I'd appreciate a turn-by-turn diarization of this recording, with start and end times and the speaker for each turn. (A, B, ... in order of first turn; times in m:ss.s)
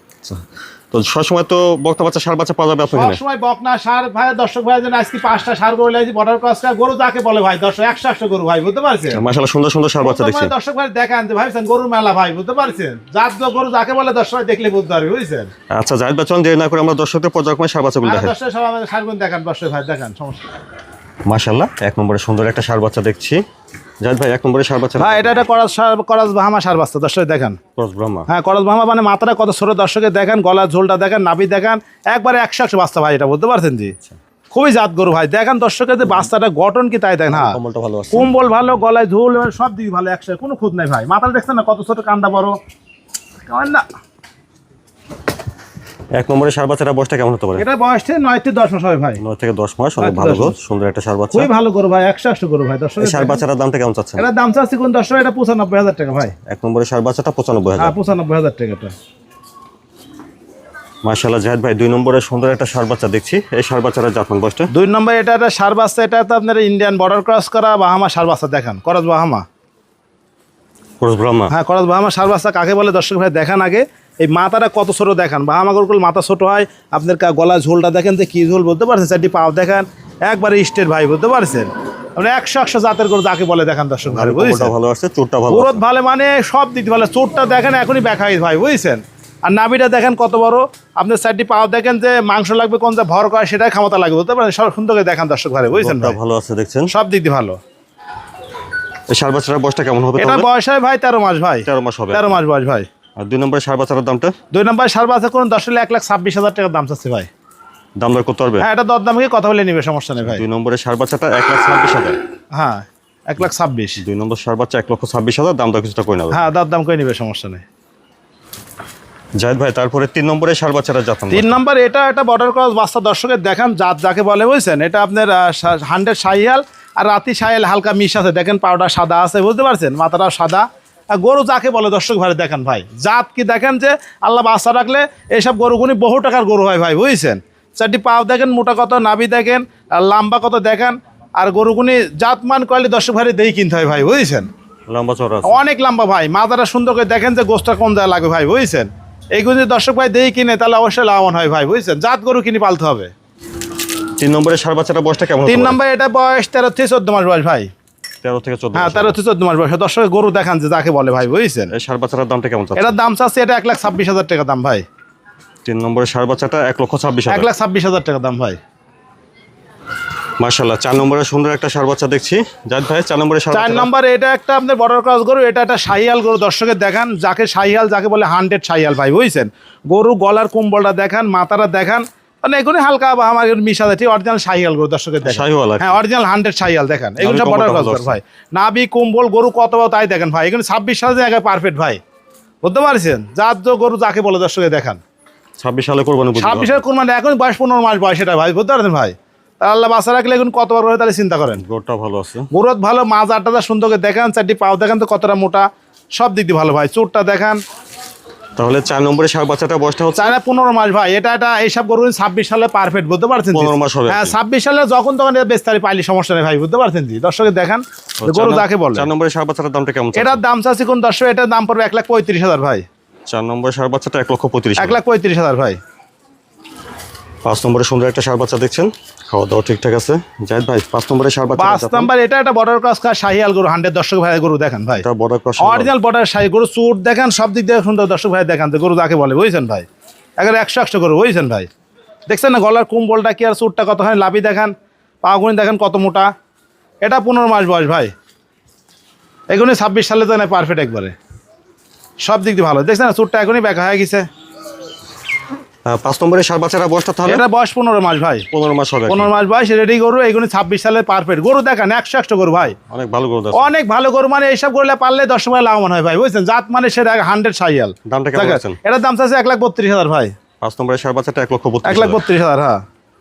0:00.2-0:03.2 A
0:02.9-0:09.2 B
0:09.1-0:10.5 A
0:10.0-0:15.5 B
0:15.7-0:18.3 A
0:18.0-0:20.4 B
0:21.3-0:23.4 A
0:24.0-0:25.4 A
0:25.0-0:27.6 B
0:27.8-0:28.3 A
0:28.3-0:33.9 B
0:34.5-0:37.6 B
0:37.3-0:38.3 A
0:38.1-0:42.6 B
0:43.5-0:43.8 B
0:46.2-0:47.6 A
0:47.6-0:49.2 B
0:49.2-0:51.5 A
0:50.0-0:50.5 B
0:51.3-0:53.4 B
0:53.0-0:54.3 A
0:54.2-0:56.3 B
0:56.5-0:58.0 A
0:57.8-0:58.9 B
1:01.0-1:04.7 A
1:04.7-1:09.4 B
1:11.0-1:11.5 A
1:11.5-1:24.7 B
1:24.0-1:25.8 A
1:25.5-1:36.2 B
1:35.7-1:36.9 A
1:36.9-1:37.6 B
1:39.1-1:40.5 A
1:40.2-1:42.9 B
1:41.6-1:42.3 A
1:43.2-1:44.3 A
1:44.5-1:47.3 B
1:48.0-1:48.7 A
1:48.6-1:50.4 B
1:50.2-1:52.2 A
1:52.5-1:54.0 B
1:54.0-1:56.4 A
1:56.3-1:57.6 B
1:59.4-2:01.5 A
2:01.3-2:10.6 B
2:11.2-2:24.5 B
2:24.9-2:25.6 A
2:25.4-2:33.1 B
2:34.2-2:35.8 A
2:35.5-2:37.7 B
2:38.2-2:39.2 A
2:38.7-2:41.7 B
2:41.7-2:42.9 A
2:42.8-2:44.8 B
2:45.6-2:47.5 A
2:47.3-2:48.6 B
2:50.4-2:53.9 A
2:53.5-3:12.0 B
3:05.2-3:06.0 A
3:07.2-3:08.2 A
3:12.6-3:15.0 B
3:15.6-3:16.8 A
3:16.4-3:21.6 B
3:21.6-3:22.5 A
3:22.5-3:25.7 B
3:26.2-3:27.6 B
3:28.6-3:30.3 A
3:30.2-3:39.1 B
3:33.5-3:34.3 A
3:38.2-3:40.4 A
3:40.2-3:42.8 B
3:43.3-3:45.0 A
3:44.8-3:45.8 B
3:47.4-3:52.1 A
3:51.6-3:55.0 B
3:55.0-3:55.9 A
3:55.6-3:59.9 B
4:00.4-4:01.7 B
4:02.3-4:04.7 B
4:05.2-4:06.3 B
4:07.0-4:08.1 B
4:09.5-4:11.1 B
4:12.2-4:14.3 B
4:15.8-4:17.4 A
4:17.2-4:18.5 B
4:18.5-4:19.3 A
4:19.1-4:22.8 B
4:22.8-4:23.7 A
4:23.5-4:30.3 B
4:28.0-4:28.8 A
4:30.6-4:32.2 A
4:31.8-4:32.8 B